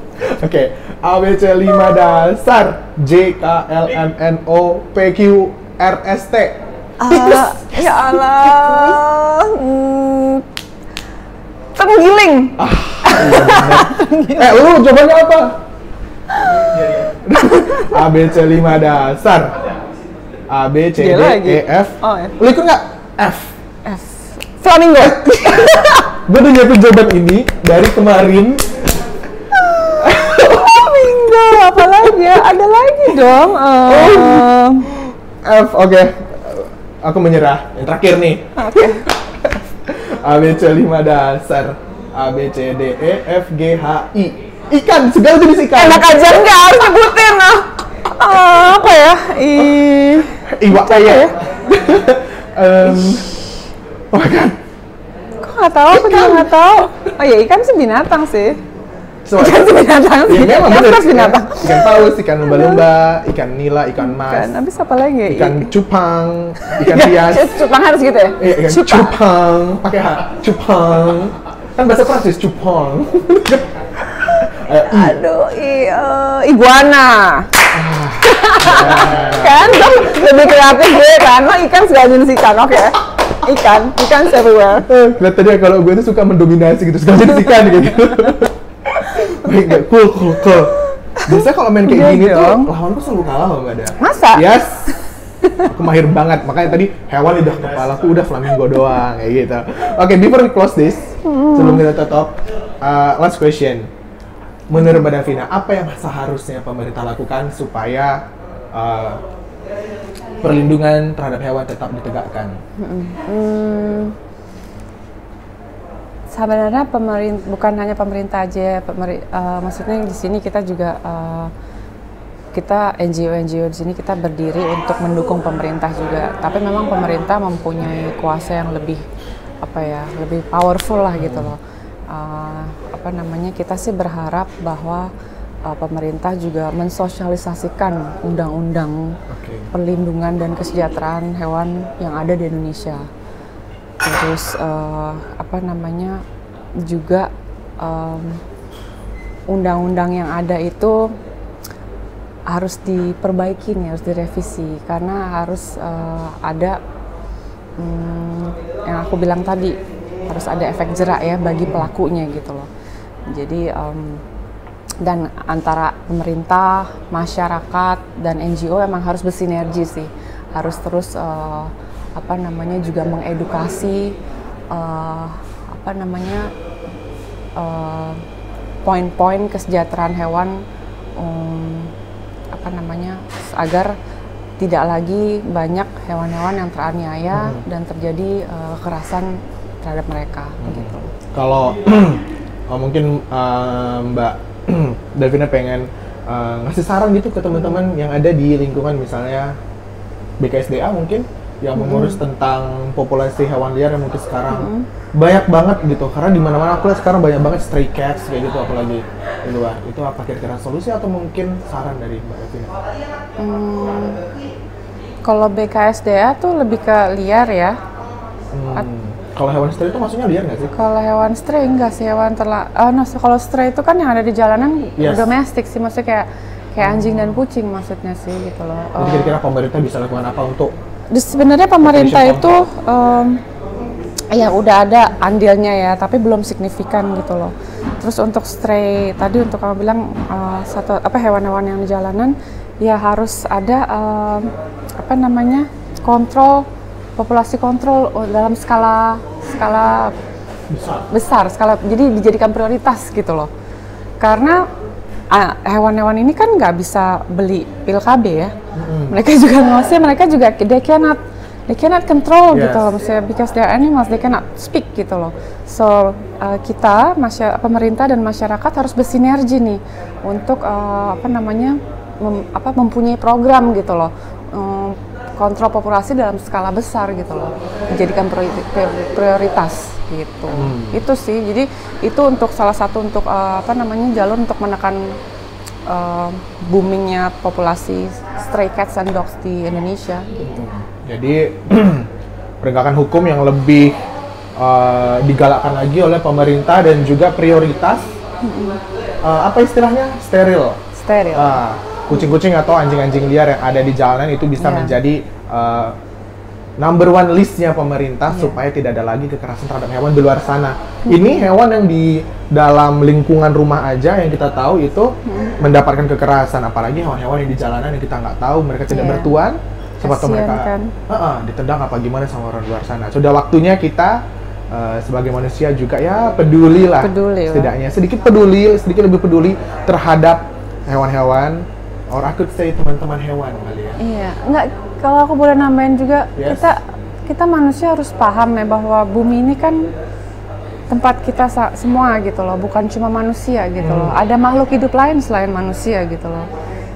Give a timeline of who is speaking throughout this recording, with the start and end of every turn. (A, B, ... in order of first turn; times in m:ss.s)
0:00.2-0:09.0 A
0:01.7-0:02.1 B
0:07.0-0:10.5 B
0:11.8-0:14.7 B
0:12.6-0:15.6 A
0:16.3-0:16.6 B
0:16.7-0:19.6 A
0:17.4-0:18.1 B
0:20.5-0:23.6 A
0:21.0-0:22.4 B
0:23.8-0:26.2 B
0:26.3-0:28.8 A
0:29.5-0:34.9 B
0:30.0-0:31.0 A
0:33.9-0:46.2 A
0:38.6-0:39.1 B
0:45.7-0:51.4 B
0:50.4-0:53.4 A
0:52.9-0:53.2 B
0:54.1-0:54.6 A
0:55.4-0:58.6 B
0:55.9-0:56.5 A
0:59.2-0:59.7 A
0:59.4-1:02.8 B
1:00.3-1:04.5 A
1:04.0-1:05.7 B
1:05.3-1:07.6 A
1:06.6-1:09.2 B
1:08.4-1:15.2 A
1:14.4-1:17.7 B
1:17.7-1:19.9 A
1:18.2-1:24.9 B
1:24.9-1:35.0 A
1:27.6-1:28.3 B
1:29.3-1:29.6 B
1:30.5-1:32.7 B
1:34.0-1:35.7 B
1:35.6-1:43.9 A
1:41.2-1:41.9 B
1:44.7-1:48.2 A
1:44.8-1:45.1 B
1:48.7-1:49.2 A
1:50.4-1:52.6 A
1:52.8-1:54.2 B
1:56.3-2:01.5 B
2:02.5-2:09.0 B
2:09.6-2:15.1 B
2:11.2-2:11.5 A
2:15.6-2:19.2 B
2:19.3-2:19.7 A
2:19.7-2:23.1 B
2:24.0-2:26.2 B
2:26.8-2:28.4 B
2:29.5-2:31.1 B
2:32.5-2:36.8 B
2:37.8-2:42.7 B
2:43.3-2:44.2 B
2:45.0-2:54.2 B
2:54.7-2:56.5 B
2:57.6-2:58.2 B
2:58.8-3:00.6 B
3:01.2-3:01.9 B
3:02.5-3:04.0 B
3:04.6-3:11.2 B
3:07.3-3:07.6 A
3:10.6-3:19.6 A
3:17.5-3:17.8 B
3:20.4-3:32.8 A
3:21.8-3:22.2 B
3:24.5-3:24.9 B
3:33.4-3:34.2 B
3:35.2-3:37.8 B
3:38.5-3:40.7 A
3:40.7-3:49.4 B
3:45.0-3:45.3 A
3:46.8-3:47.4 A
3:49.0-3:50.7 A
3:51.1-3:53.4 B
3:51.8-3:52.6 A
3:54.3-4:10.2 B
4:10.7-4:11.1 A
4:11.1-4:13.5 B
4:14.2-4:14.7 B
4:15.3-4:18.6 B
4:18.8-4:19.2 A
4:19.1-4:45.1 B
4:22.5-4:22.8 A
4:40.5-4:41.0 A
4:45.9-4:50.3 B
4:50.4-4:52.1 A
4:52.6-4:54.0 A
4:54.6-4:58.1 A
4:58.4-4:58.8 B
4:59.2-5:00.8 A
5:00.9-5:02.4 B
5:01.3-5:06.0 A
5:04.6-5:05.0 B
5:06.8-5:34.0 A
5:08.3-5:08.6 B
5:11.1-5:11.5 B
5:15.3-5:15.6 B
5:18.9-5:19.4 B
5:20.0-5:20.9 B
5:27.0-5:27.7 B
5:34.0-5:39.9 B
5:36.4-5:36.7 A
5:40.9-5:46.5 B
5:43.8-5:44.2 A